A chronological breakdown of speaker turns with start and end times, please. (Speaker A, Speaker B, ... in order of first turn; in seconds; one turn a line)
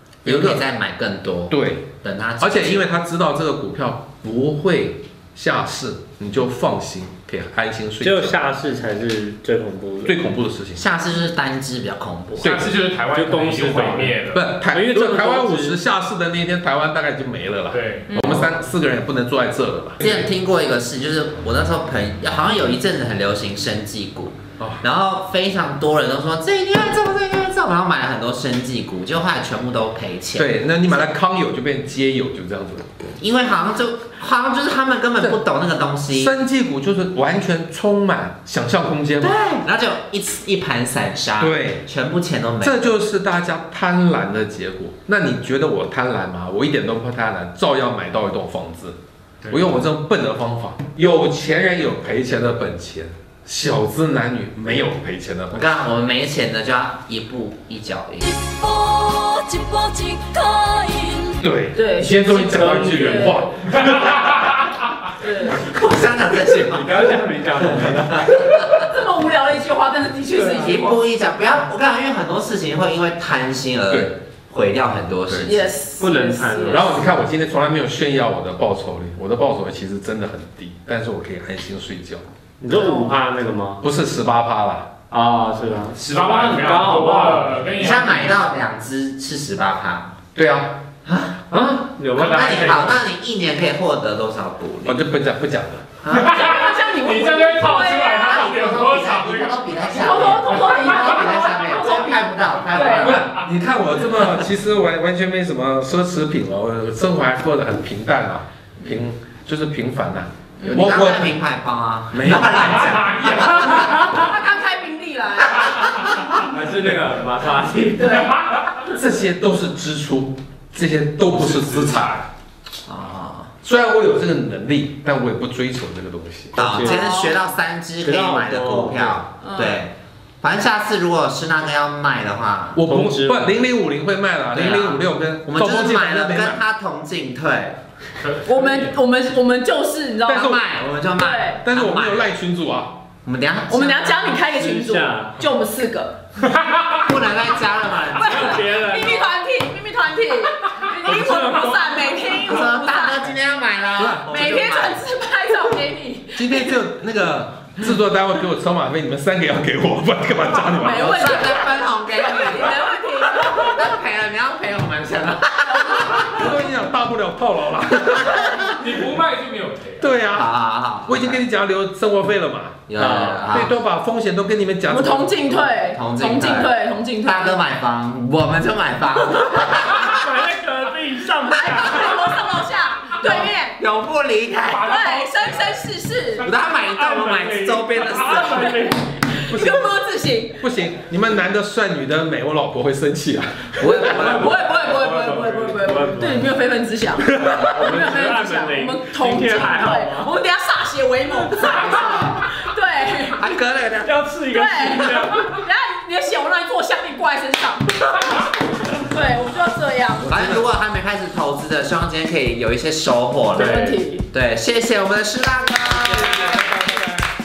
Speaker A: 0.2-0.6
Speaker B: 0.2-2.9
Speaker A: 1.5-8.6
Speaker C: 8.0-10.2
Speaker A: 10.0-10.8
Speaker B: 10.8-12.5
Speaker D: 12.4-14.4
Speaker A: 12.4-12.7
Speaker C: 13.1-14.2
Speaker A: 14.3-20.2
Speaker C: 14.7-15.8
Speaker D: 17.7-18.1
Speaker E: 18.1-18.4
Speaker B: 20.0-31.1
Speaker A: 24.6-24.8
Speaker A: 30.3-33.0
Speaker B: 33.2-36.3
Speaker A: 36.1-39.3
Speaker B: 39.2-42.8
Speaker A: 41.4-41.8
Speaker A: 42.6-49.0
Speaker A: 49.5-55.6
Speaker B: 55.5-58.4
Speaker F: 58.3-61.4
Speaker A: 61.4-64.2
Speaker E: 61.7-63.7
Speaker E: 65.2-65.7
Speaker B: 65.6-67.0
Speaker C: 66.6-68.4
Speaker B: 68.0-68.7
Speaker E: 68.3-71.1
Speaker B: 70.3-75.7
Speaker A: 75.3-75.5
Speaker E: 75.4-76.9
Speaker C: 76.0-77.2
Speaker A: 76.7-82.2
Speaker C: 82.6-83.8
Speaker E: 82.7-83.1
Speaker A: 83.8-84.9
Speaker C: 85.1-87.9
Speaker D: 86.0-88.4
Speaker B: 87.8-90.1
Speaker A: 90.3-90.8
Speaker B: 91.0-91.4
Speaker C: 91.5-93.0
Speaker D: 92.1-92.9
Speaker B: 92.2-95.0
Speaker A: 94.8-96.0
Speaker B: 96.0-96.8
Speaker D: 96.1-99.9
Speaker E: 96.4-98.5
Speaker B: 98.2-103.4
Speaker E: 99.9-103.2
Speaker A: 103.2-111.4
Speaker E: 110.6-110.9
Speaker B: 110.6-114.2
Speaker A: 112.1-113.0
Speaker E: 113.4-116.1
Speaker C: 116.4-118.3
Speaker A: 118.8-122.2
Speaker D: 121.2-122.2
Speaker B: 122.9-123.5
Speaker A: 123.6-126.8
Speaker C: 126.5-127.1
Speaker B: 126.5-132.8
Speaker E: 126.8-127.4
Speaker C: 128.0-129.2
Speaker E: 129.4-129.8
Speaker A: 132.7-136.6
Speaker C: 132.8-133.6
Speaker B: 134.5-137.8
Speaker D: 138.2-138.9
Speaker E: 138.4-140.5
Speaker A: 140.3-140.6
Speaker B: 140.3-142.3
Speaker E: 141.1-141.7
Speaker A: 141.6-143.0
Speaker B: 143.2-144.3
Speaker E: 143.7-146.2
Speaker C: 144.4-145.4
Speaker D: 146.4-146.8
Speaker B: 147.0-148.7
Speaker E: 148.1-153.2
Speaker C: 148.2-149.3
Speaker C: 151.0-152.4
Speaker B: 152.4-155.1
Speaker A: 154.0-154.3
Speaker E: 154.2-156.8
Speaker A: 156.3-161.8
Speaker E: 160.7-163.8
Speaker B: 161.0-166.4
Speaker E: 165.6-166.3
Speaker A: 166.3-168.8
Speaker D: 168.6-170.1
Speaker A: 170.0-170.5
Speaker B: 170.3-171.4
Speaker A: 171.1-172.8
Speaker B: 172.9-173.7
Speaker C: 172.9-173.5
Speaker A: 173.4-175.7
Speaker E: 174.9-177.7
Speaker B: 175.9-180.2
Speaker C: 179.7-182.6
Speaker E: 181.5-183.8
Speaker B: 183.2-185.0
Speaker D: 184.7-185.7
Speaker E: 184.8-186.4
Speaker B: 186.4-188.6
Speaker C: 186.9-189.1
Speaker E: 188.2-190.6
Speaker A: 189.5-189.9
Speaker A: 190.6-194.3
Speaker B: 193.8-194.5
Speaker C: 193.8-196.5
Speaker E: 194.2-203.4
Speaker A: 197.3-197.7
Speaker C: 197.6-200.3
Speaker C: 201.4-201.8
Speaker B: 201.7-202.3
Speaker B: 203.3-204.1
Speaker C: 204.0-205.5
Speaker E: 204.5-210.7
Speaker B: 210.2-213.7
Speaker E: 213.5-214.3
Speaker C: 213.6-214.0
Speaker B: 214.3-216.7
Speaker D: 216.0-216.8